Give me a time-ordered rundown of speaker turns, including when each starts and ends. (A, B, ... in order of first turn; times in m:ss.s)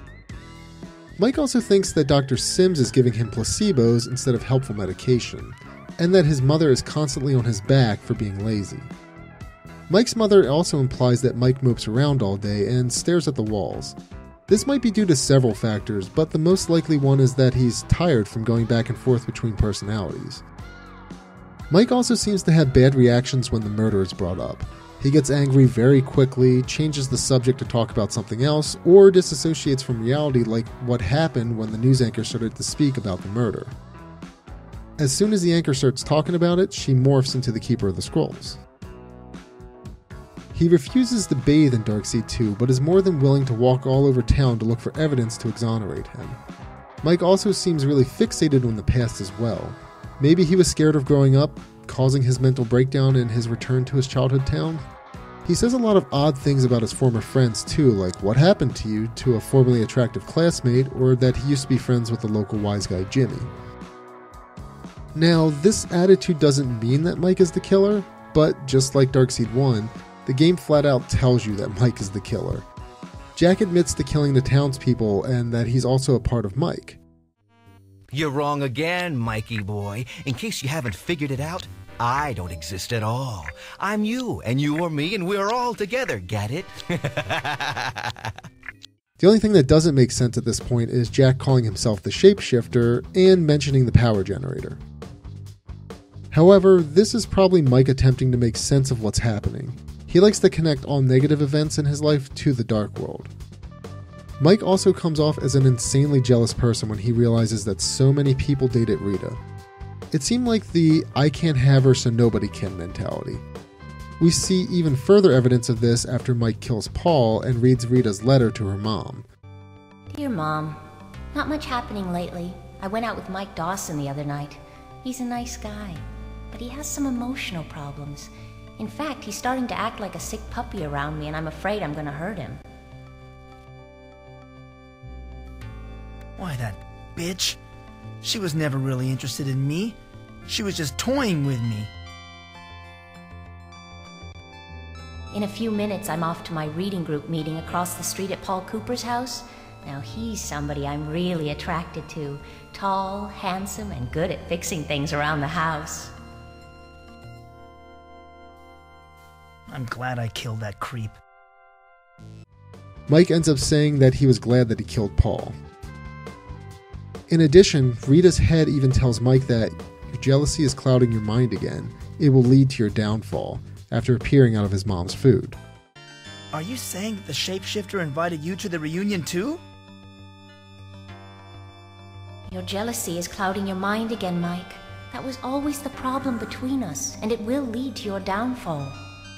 0:01.2-0:08.9 A
0:09.9-0:14.0 A
0:14.5-0:20.4 A
0:21.7-0:33.7 A
0:35.0-0:38.6 A
0:40.5-0:46.4 A
0:47.0-0:54.8 A
0:55.4-1:03.5 A
1:05.1-1:12.7 A
1:13.4-1:17.0 A
1:18.1-1:28.3 B
1:29.2-1:34.8 A
1:36.3-1:43.3 A
1:44.4-1:49.4 A
1:50.1-1:53.4 A
1:54.2-1:59.2 A
2:00.1-2:00.8 C
2:01.3-2:12.6 C
2:16.4-2:17.6 D
2:18.2-2:21.9 D
2:25.3-2:36.1 C
2:39.7-2:41.1 D
2:43.1-2:45.6 A
2:47.3-2:55.6 A
2:56.5-2:59.6 D
3:02.5-3:09.0 C